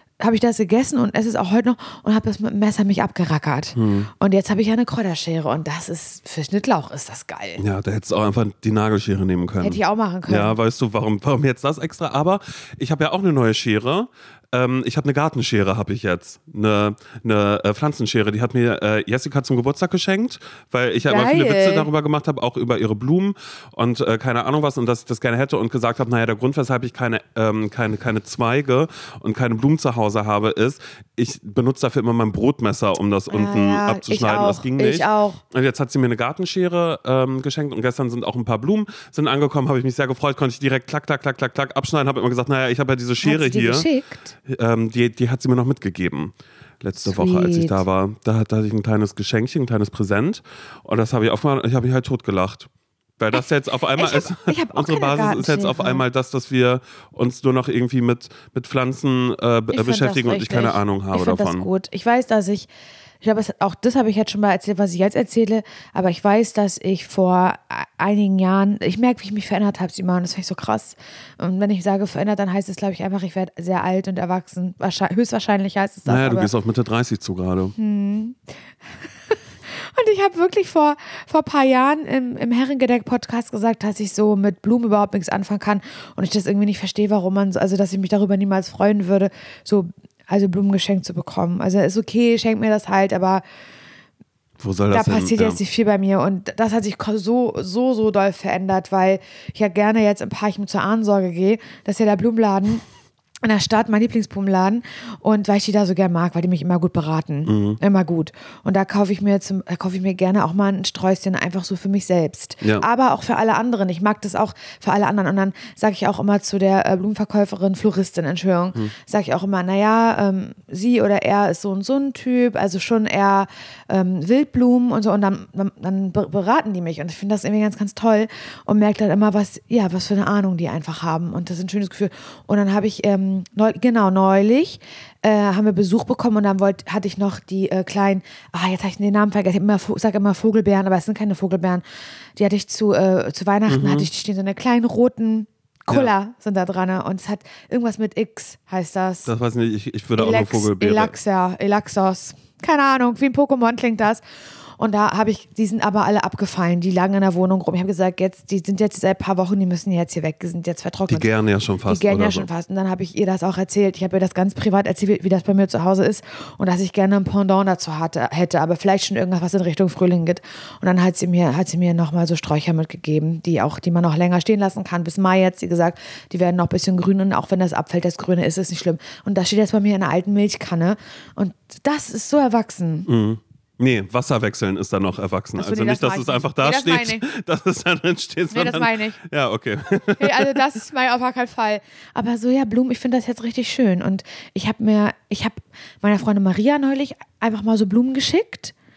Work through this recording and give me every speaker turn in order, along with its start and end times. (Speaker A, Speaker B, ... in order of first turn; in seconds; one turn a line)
Speaker A: 0.2-7.6
Speaker B: 3.8-4.1
Speaker B: 7.6-43.9
Speaker A: 9.6-10.6
Speaker A: 21.0-21.9
Speaker A: 33.3-35.4
Speaker A: 43.2-44.3
Speaker B: 44.5-61.6
Speaker A: 47.0-47.8
Speaker A: 54.0-56.0
Speaker A: 59.7-62.7
Speaker A: 63.2-76.5
Speaker B: 76.1-77.7
Speaker A: 77.8-78.4
Speaker A: 79.3-93.4
Speaker B: 94.6-95.6
Speaker A: 94.9-102.8
Speaker A: 103.4-141.8
Speaker B: 107.5-107.8
Speaker A: 142.4-149.3
Speaker B: 143.7-144.1
Speaker B: 149.2-151.1
Speaker A: 150.2-154.2
Speaker A: 154.8-161.3
Speaker B: 161.1-162.5
Speaker A: 161.8-183.1
Speaker B: 183.1-190.7
Speaker A: 185.6-187.2
Speaker A: 188.5-189.2
Speaker A: 190.0-198.7